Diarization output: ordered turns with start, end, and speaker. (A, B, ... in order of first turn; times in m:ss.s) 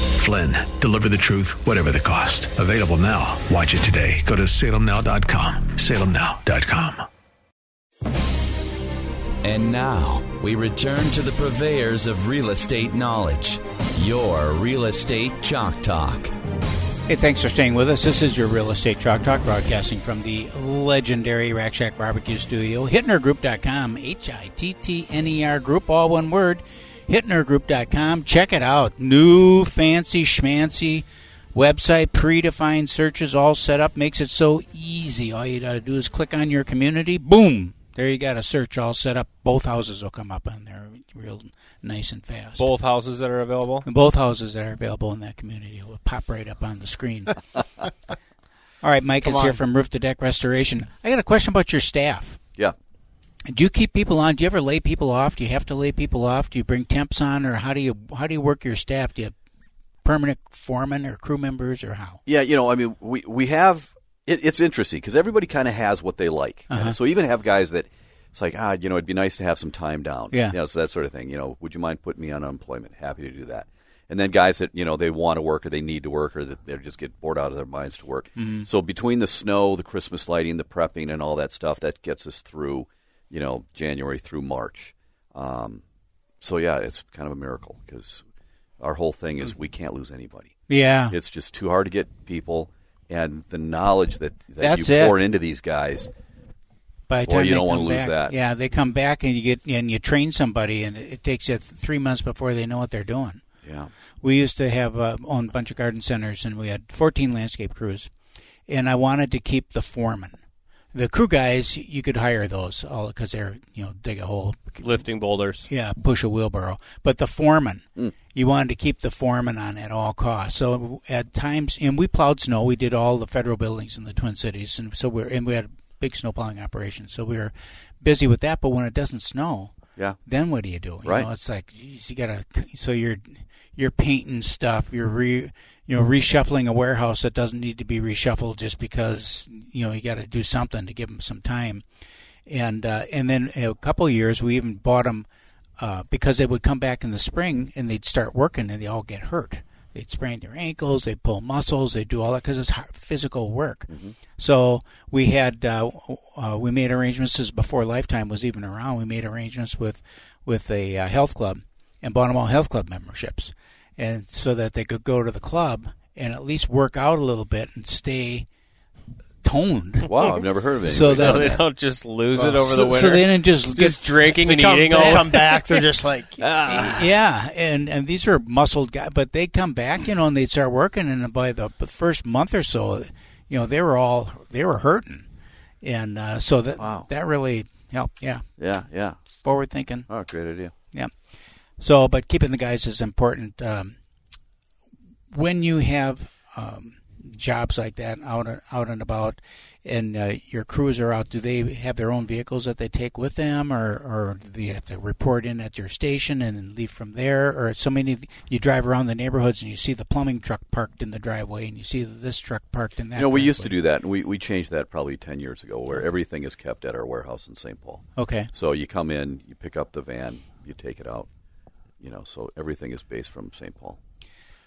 0:00.2-0:07.0 A
0:09.4-0:16.3 B
0:17.1-0:42.7 C
0:42.6-0:43.8 D
0:43.8-0:47.4 C
0:48.8-0:52.4 C
0:49.2-0:49.6 E
0:53.5-0:59.3 C
1:00.0-1:02.2 C
1:02.2-1:25.8 F
1:06.7-1:07.0 C
1:10.3-1:10.6 C
1:18.4-1:18.6 C
1:26.4-1:28.2 F
1:28.8-1:30.5 F
1:30.7-1:31.1 C
1:31.1-1:36.1 F
1:34.6-1:35.2 C
1:37.1-1:43.4 C
1:37.3-1:38.4 F
1:43.6-1:43.9 F
1:44.2-1:48.1 C
1:48.7-1:50.4 C
1:50.9-1:54.8 C
1:54.8-1:55.7 D
1:55.7-2:21.8 C
2:11.0-2:11.3 F
2:22.5-2:25.2 C
2:25.8-2:48.5 C
2:33.9-2:34.1 F
2:49.4-2:50.1 C
2:50.1-2:51.6 F
2:50.8-2:51.6 C
2:51.0-2:55.6 D
2:52.3-2:53.0 E
2:52.8-2:54.0 C
2:53.7-2:56.9 E
2:54.9-2:55.4 C
2:56.4-2:57.0 D
2:56.6-3:05.3 C
3:05.8-3:08.9 C
3:06.8-3:07.1 F
3:08.6-3:09.2 F
3:09.4-3:14.0 C
3:09.7-3:10.7 F
3:15.3-3:33.7 C
3:33.1-3:41.3 F
3:38.2-3:38.5 C
3:42.0-3:44.0 F